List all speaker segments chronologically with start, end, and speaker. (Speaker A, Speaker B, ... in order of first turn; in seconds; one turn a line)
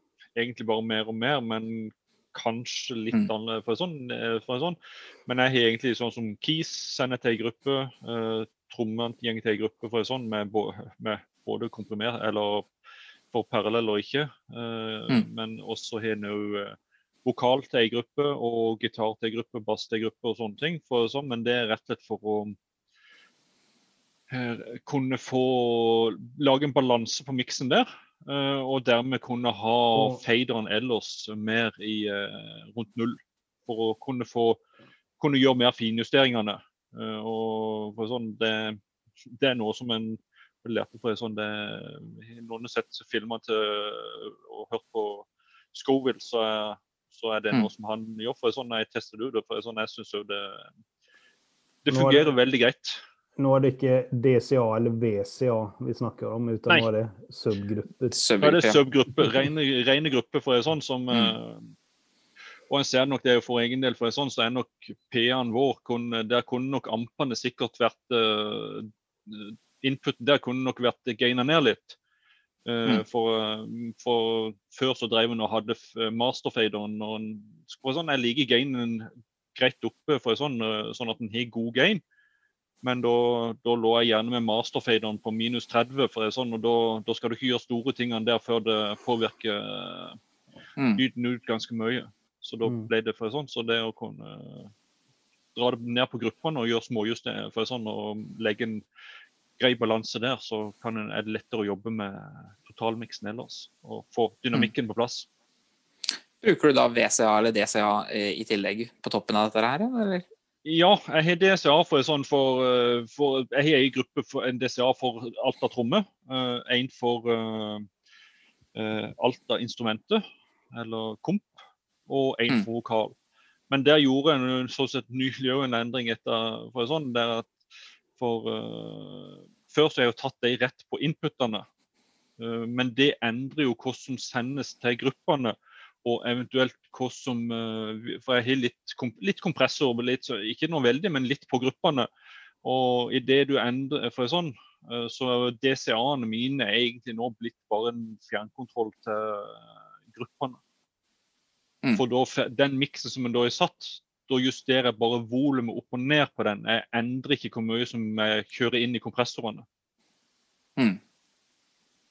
Speaker A: 0.3-12.7
Speaker A: 13.3-22.5
Speaker A: 24.3-34.6
Speaker A: 35.2-50.7
Speaker A: 51.8-53.0
Speaker B: 51.9-52.3
Speaker B: 53.4-58.1
Speaker C: 58.1-58.8
Speaker A: 58.4-61.7
Speaker A: 62.7-72.0
Speaker A: 72.7-82.0
Speaker A: 82.8-90.2
Speaker C: 90.8-91.0
Speaker A: 91.0-94.7
Speaker A: 95.5-98.8
Speaker A: 99.6-105.3
Speaker C: 106.4-110.2
Speaker A: 110.6-117.9
Speaker A: 118.7-123.1
Speaker A: 123.7-127.5
Speaker A: 128.2-131.7
Speaker A: 132.4-142.1
Speaker A: 142.6-150.6
Speaker A: 151.9-159.7